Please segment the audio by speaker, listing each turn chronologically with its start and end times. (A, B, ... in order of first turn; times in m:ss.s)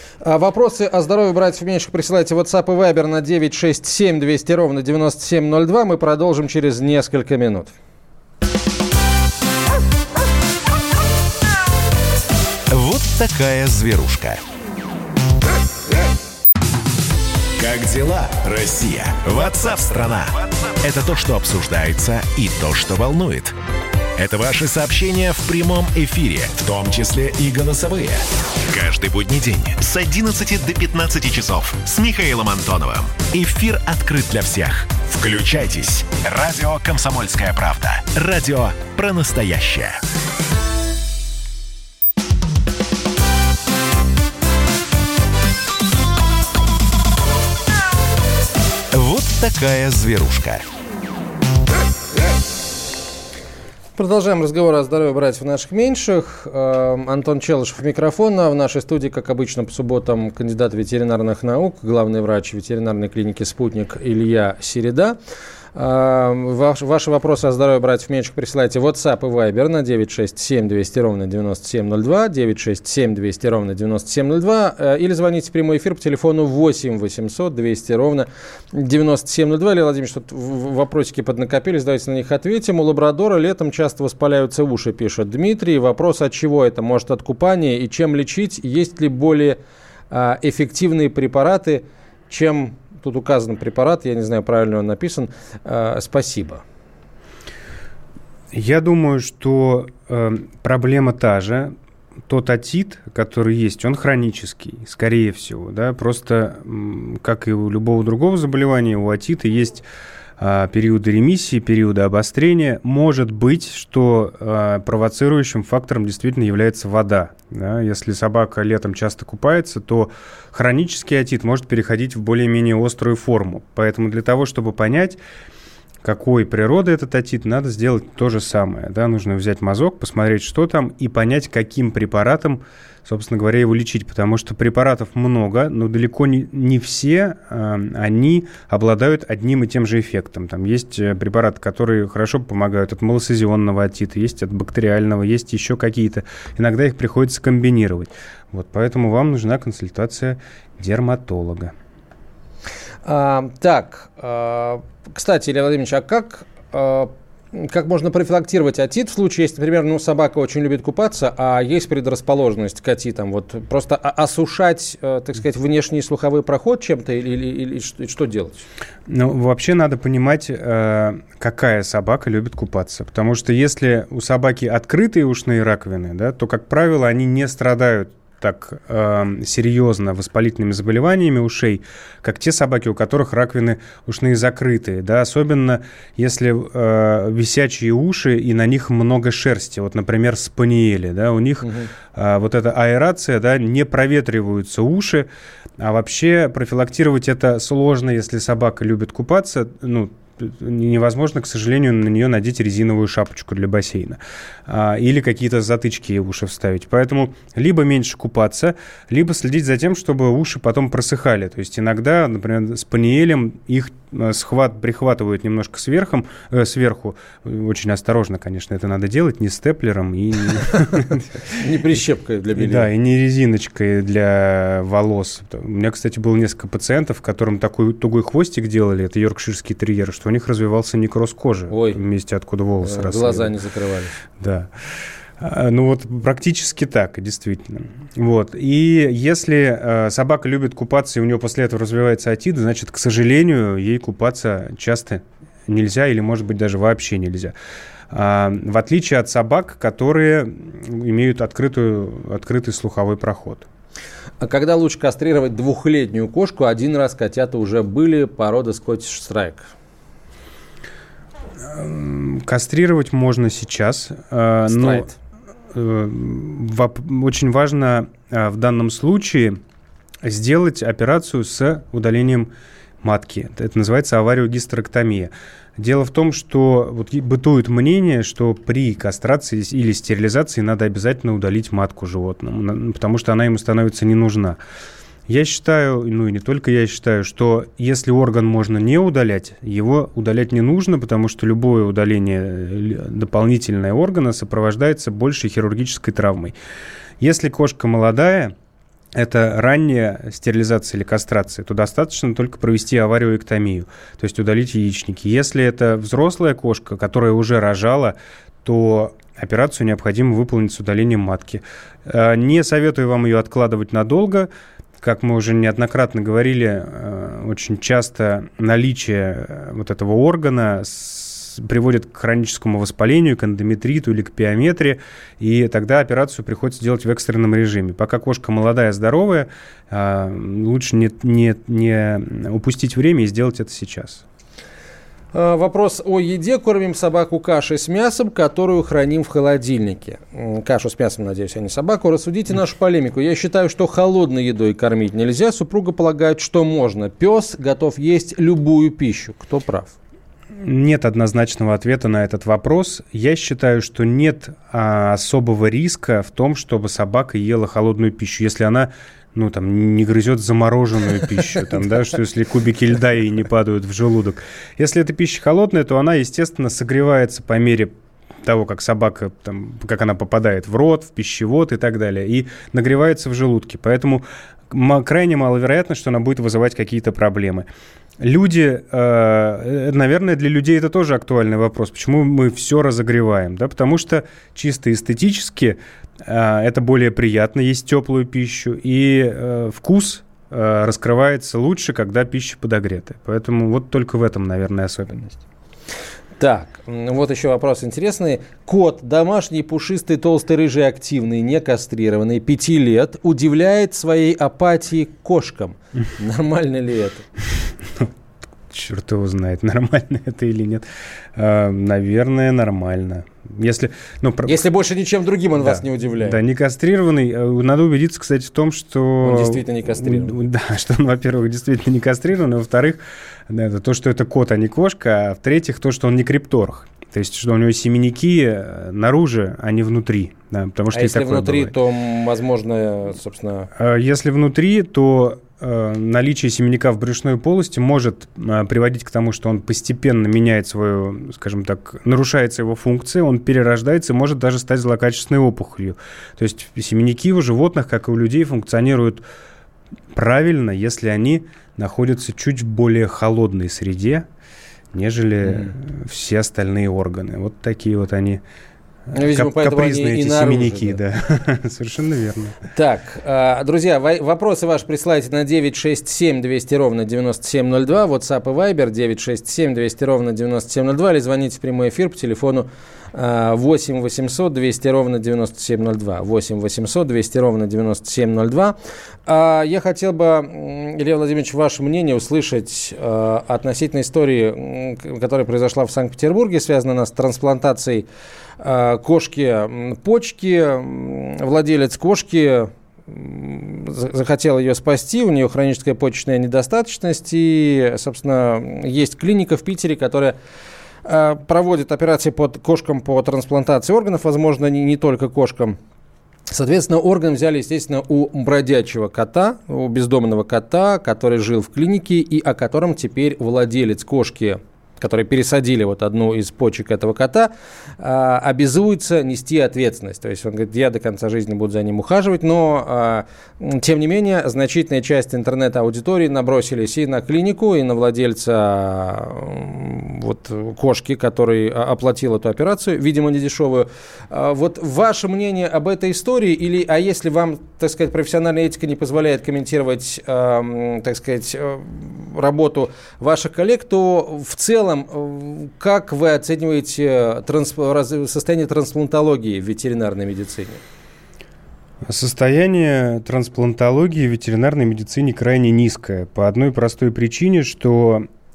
0:00.2-0:07.7 A
0:12.7-0:14.4 B
0:17.6-0:23.6 B
0:24.2-0:40.0 B
0:48.9-0:50.6 B
0:54.0-1:05.2 A
1:05.8-1:29.6 A
1:30.1-1:36.6 A
1:38.5-1:41.7 C
1:42.3-1:49.8 C
1:50.4-2:05.2 C
2:06.0-2:31.7 C
2:33.0-2:48.6 A
2:49.1-3:41.4 C
3:11.6-3:11.9 A
3:41.6-3:42.9 A
3:42.6-3:53.5 C
3:51.7-3:52.0 A
3:52.8-3:54.2 A
3:54.4-3:54.7 C
3:55.4-4:07.6 C
4:08.1-4:13.7 C
4:14.4-4:19.7 A
4:21.6-4:25.1 C
4:24.7-4:25.1 A
4:25.7-4:29.6 C
4:30.2-4:32.5 C
4:33.0-4:44.6 C
4:45.3-4:56.6 C
4:57.2-4:58.6 C
4:59.1-5:34.2 C
5:35.3-5:49.9 A
5:50.6-6:17.7 C
6:18.2-6:35.3 C
6:36.4-6:47.3 A
6:47.6-6:48.1 C
6:48.7-6:54.6 C
6:54.4-6:56.4 A
6:55.6-7:11.8 C
6:59.2-7:00.4 A
7:10.9-7:13.7 A
7:13.8-7:29.2 C
7:30.1-7:34.3 C
7:34.9-7:38.4 C
7:35.4-7:35.7 A
7:39.1-7:41.0 A
7:39.2-7:42.6 C
7:42.8-8:08.1 A
8:08.6-8:20.4 A
8:21.0-8:25.8 A
8:26.5-9:10.8 A
9:12.1-9:18.3 C